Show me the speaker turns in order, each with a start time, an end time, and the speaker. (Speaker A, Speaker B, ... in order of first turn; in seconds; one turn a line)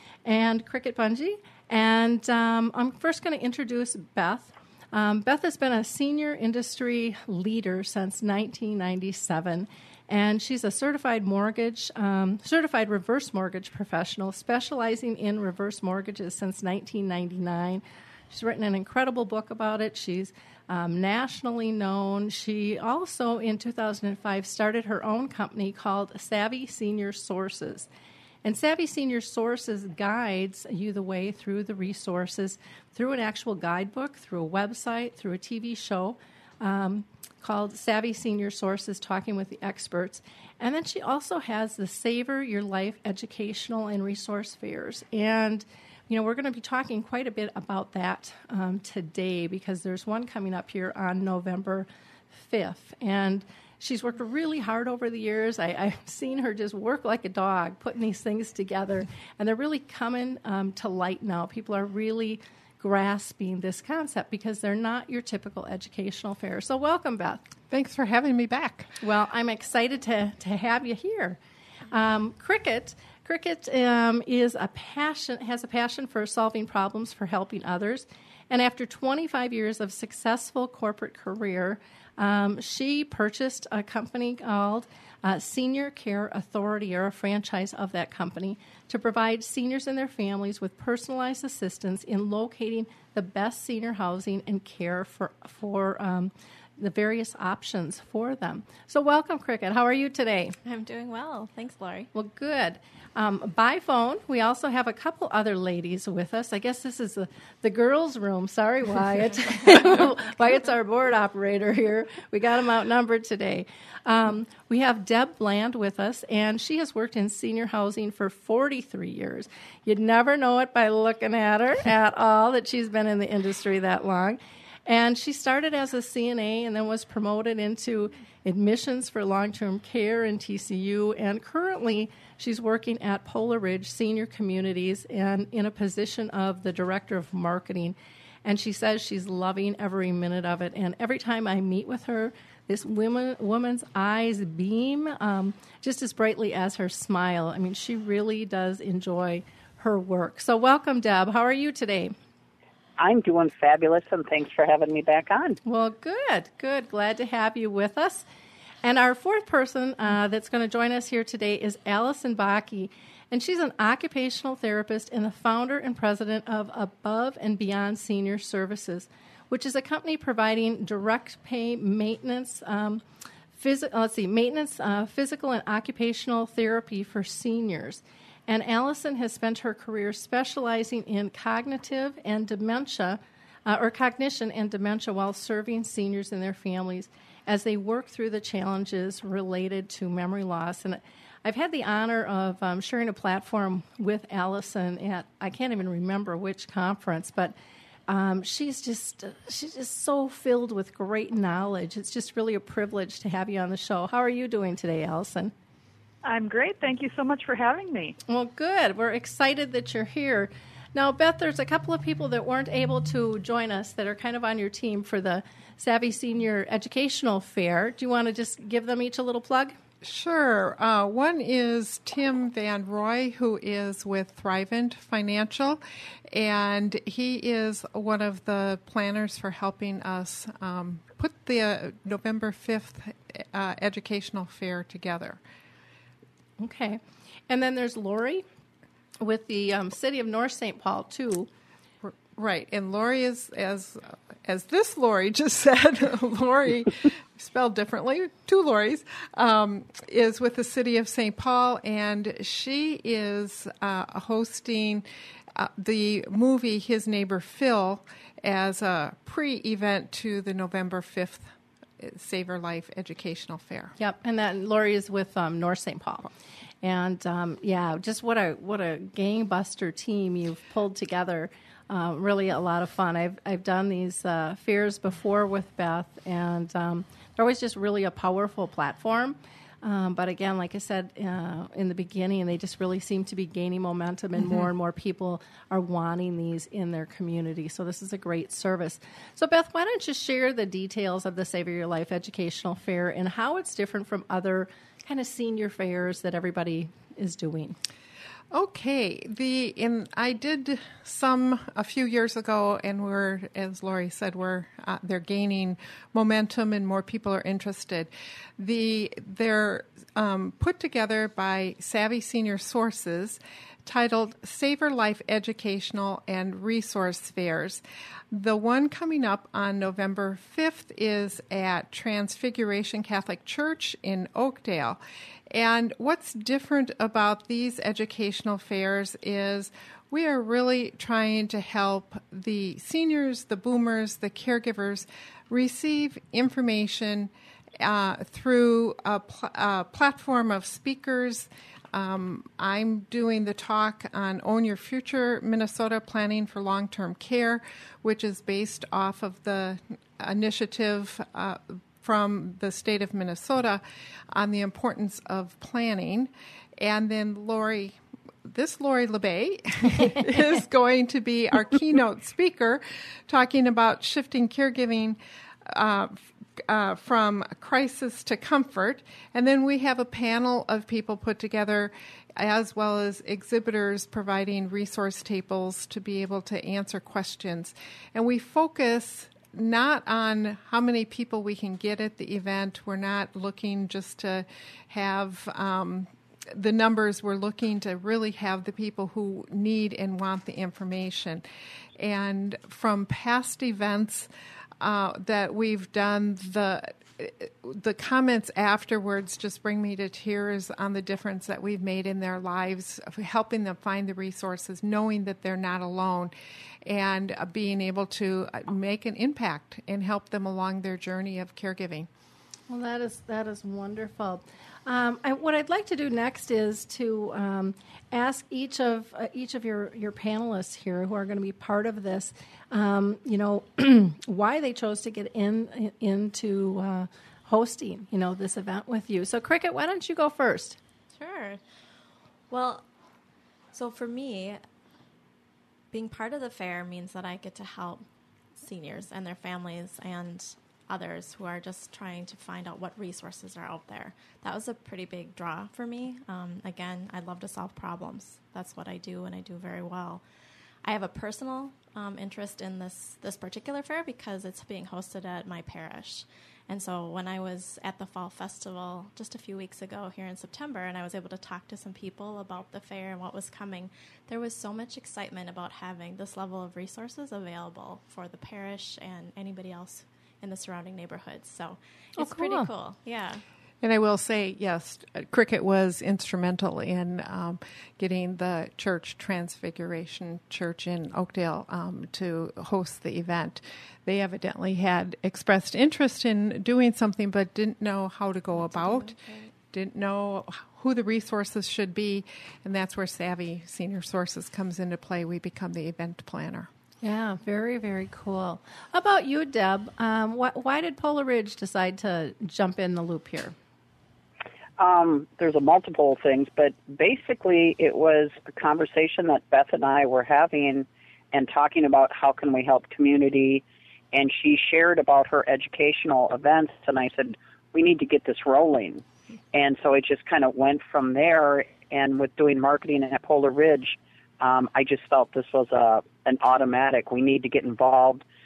Speaker A: 0.2-27.9
Speaker A: 28.4-51.9
Speaker A: 52.4-67.4
Speaker B: 67.7-68.9
Speaker A: 69.0-71.4
Speaker A: 71.9-100.6
Speaker C: 100.7-102.1
Speaker A: 102.1-152.1
Speaker D: 153.0-155.6
Speaker A: 155.7-158.3
Speaker A: 158.8-173.0
Speaker A: 173.5-197.6
Speaker A: 198.1-205.5
Speaker E: 206.2-208.2
Speaker A: 208.3-219.8
Speaker B: 220.0-235.4
Speaker A: 236.6-238.4
Speaker A: 239.2-241.5
Speaker B: 242.0-263.9
Speaker A: 264.0-266.3
Speaker A: 266.8-297.8
Speaker B: 298.5-325.0
Speaker B: 325.5-391.4
Speaker B: 392.0-406.3
Speaker B: 406.8-412.1
Speaker A: 412.7-430.8
Speaker C: 431.1-431.6
Speaker C: 432.5-432.9
Speaker C: 433.7-434.6
Speaker C: 435.9-438.1
Speaker C: 438.6-450.2
Speaker C: 450.8-473.4
Speaker A: 472.2-472.7
Speaker B: 473.8-489.2
Speaker C: 488.6-489.5
Speaker B: 489.7-496.7
Speaker A: 497.0-503.6
Speaker D: 504.8-528.2